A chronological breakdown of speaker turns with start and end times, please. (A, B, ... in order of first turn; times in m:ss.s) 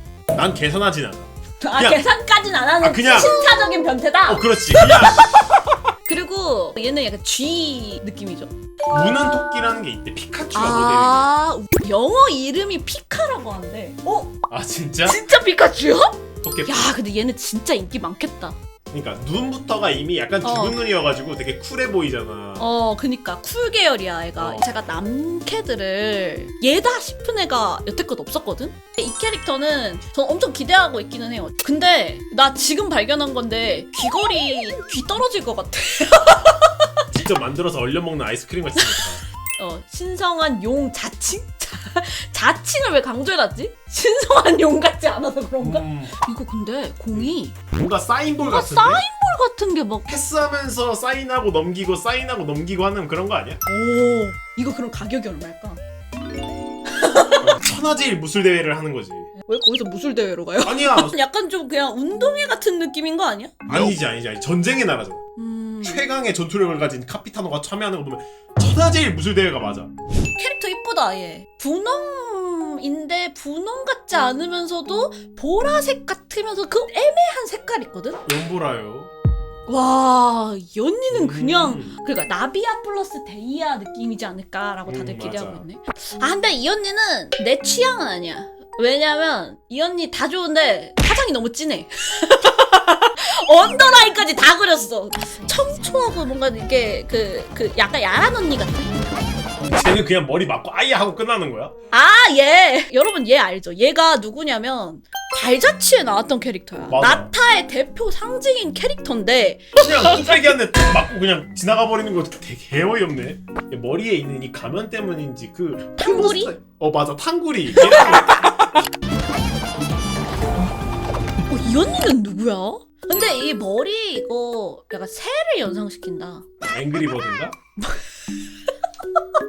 0:00.3-0:02.0 A
0:01.6-0:08.5 B
0:02.8-0:03.4 A
0:04.3-0:05.3 A
0:08.9-0:11.3 A
0:10.5-0:14.4 B
0:14.5-0:15.2 A
0:15.0-0:18.6 B
0:16.4-0:16.9 A
0:18.9-0:22.7 A
0:20.4-0:20.8 B
0:22.6-0:37.0 B
0:24.4-0:24.7 A
0:37.1-0:39.2 A
0:38.8-0:47.6 B
0:45.6-0:46.2 A
0:47.1-0:49.0 A
0:48.4-0:50.1 B
0:50.1-0:53.6 A
0:53.7-0:55.8 B
0:56.9-0:57.6 B
0:57.4-0:59.3 A
0:59.4-1:03.7 B
1:00.6-1:01.2 A
1:03.7-1:05.2 A
1:05.4-1:06.1 B
1:05.8-1:09.9 A
1:10.3-1:18.2 B
1:18.2-1:19.1 A
1:19.7-1:39.2 B
1:21.1-1:22.0 A
1:24.8-1:25.6 A
1:39.6-1:41.7 A
1:41.9-1:50.4 B
1:46.9-1:47.3 A
1:49.8-1:58.8 A
1:56.0-1:56.6 B
1:57.7-1:58.8 B
2:01.5-2:06.4 B
2:03.1-2:03.4 A
2:06.6-2:07.6 A